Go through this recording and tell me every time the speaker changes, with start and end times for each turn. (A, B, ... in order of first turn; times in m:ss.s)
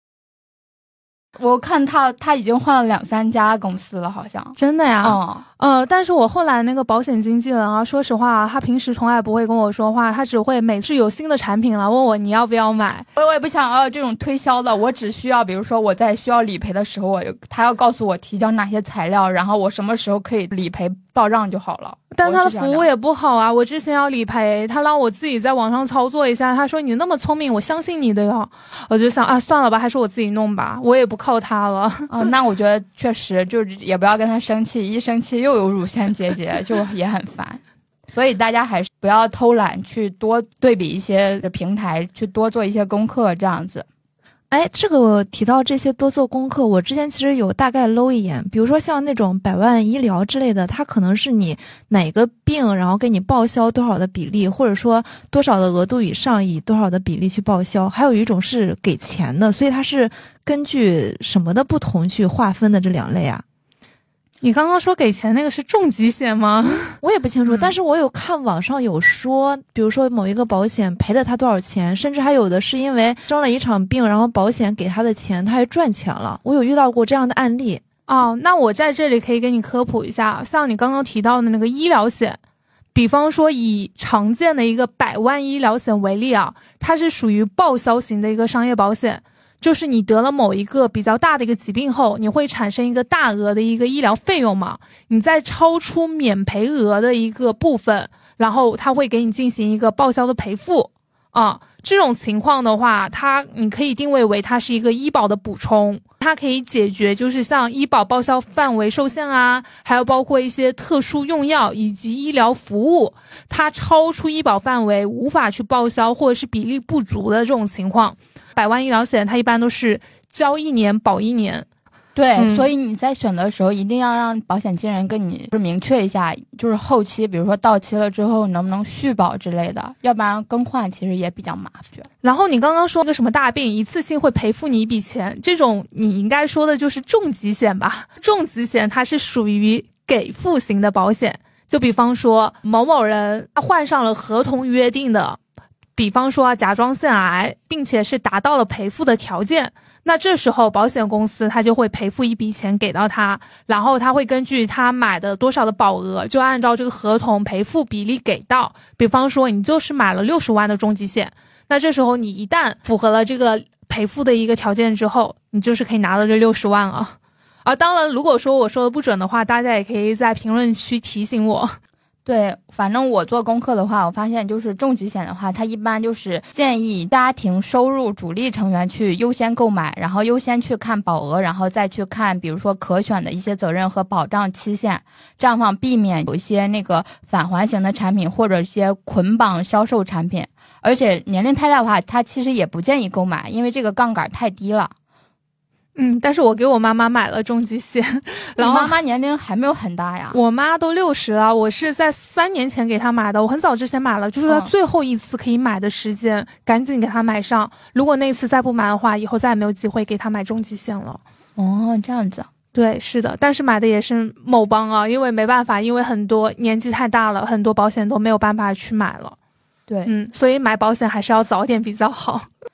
0:01.4-0:05.4 A
0:04.6-0:13.1 B
0:13.2-0:22.9 A
0:22.1-0:32.1 B
0:32.1-0:43.9 A
0:44.5-1:03.4 C
1:04.4-1:06.9 B
1:07.0-1:17.8 C
1:07.5-1:07.7 A
1:18.1-1:22.4 B
1:23.0-2:01.7 B
2:02.2-2:12.1 A
2:02.4-2:02.7 B
2:12.2-2:25.4 B
2:26.0-2:51.8 B
2:52.3-3:14.9 A
3:16.0-3:19.0 B
3:18.6-3:20.4 A
3:20.3-3:31.2 B
3:31.6-3:32.5 A
3:32.7-3:39.4 B
3:40.1-3:42.5 B